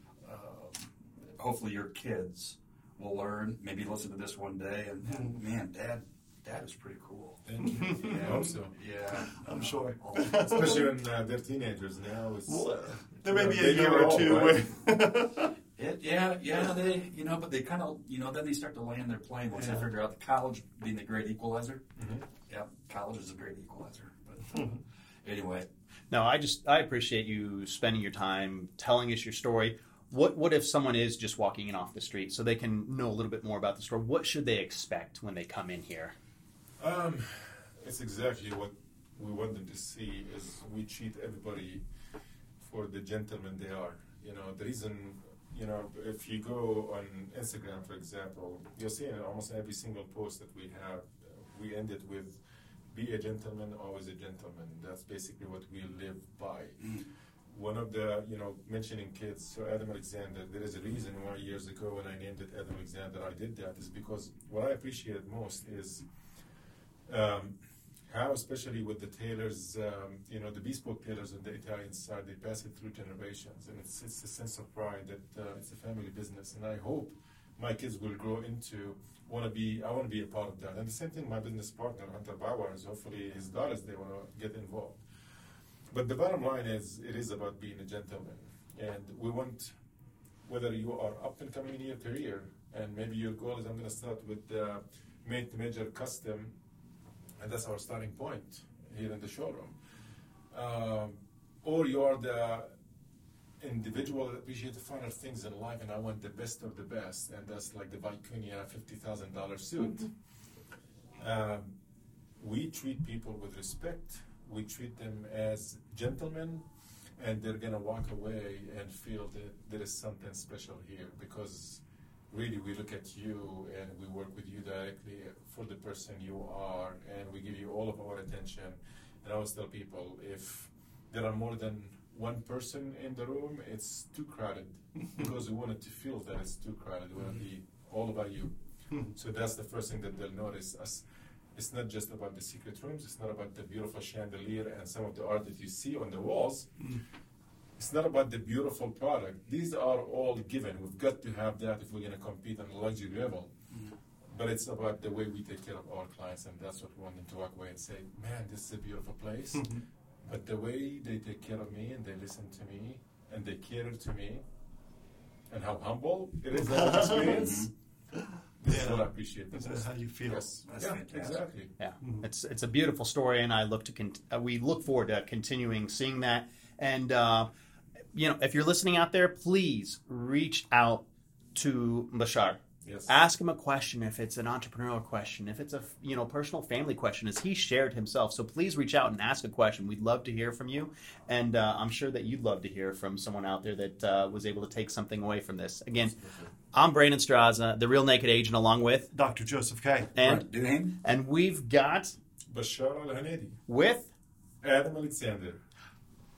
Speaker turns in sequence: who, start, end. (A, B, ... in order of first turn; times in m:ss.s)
0:00.2-0:10.8 A
0:07.4-0:08.7 B
0:07.6-0:08.4 C
0:09.3-0:10.9 C
0:10.3-0:14.7 B
0:12.5-0:15.5 C
0:15.8-0:21.8 A
0:19.6-0:19.9 C
0:22.0-0:22.3 B
0:22.5-0:25.7 A
0:24.5-0:24.8 C
0:26.1-0:36.2 D
0:36.8-0:41.8 B
0:42.6-1:06.0 B
1:07.1-1:07.6 B
1:08.1-1:25.0 B
1:25.9-1:29.7 B
1:30.5-1:36.6 B
1:37.4-1:39.8 B
1:40.5-1:42.7 B
1:43.6-1:50.1 B
1:51.2-1:51.8 B
1:52.4-2:18.6 B
2:19.1-2:26.8 B
2:27.8-2:33.5 B
2:34.3-2:44.4 B
2:39.6-2:39.8 C
2:45.5-2:47.7 B
2:46.6-2:47.5 C
2:47.2-2:47.7 A
2:48.6-2:51.7 B
2:48.6-2:50.5 C
2:50.6-2:51.4 A
2:51.8-2:57.5 D
2:52.0-2:52.3 C
2:58.1-3:01.0 D
3:01.6-3:16.2 D
3:02.8-3:03.1 B
3:16.1-3:16.5 B
3:16.7-3:19.1 D
3:19.1-3:20.1 C
3:20.2-3:20.4 D
3:20.2-3:21.0 A
3:21.0-3:22.2 D
3:22.5-3:23.6 B
3:23.7-3:24.1 D
3:24.6-3:25.6 B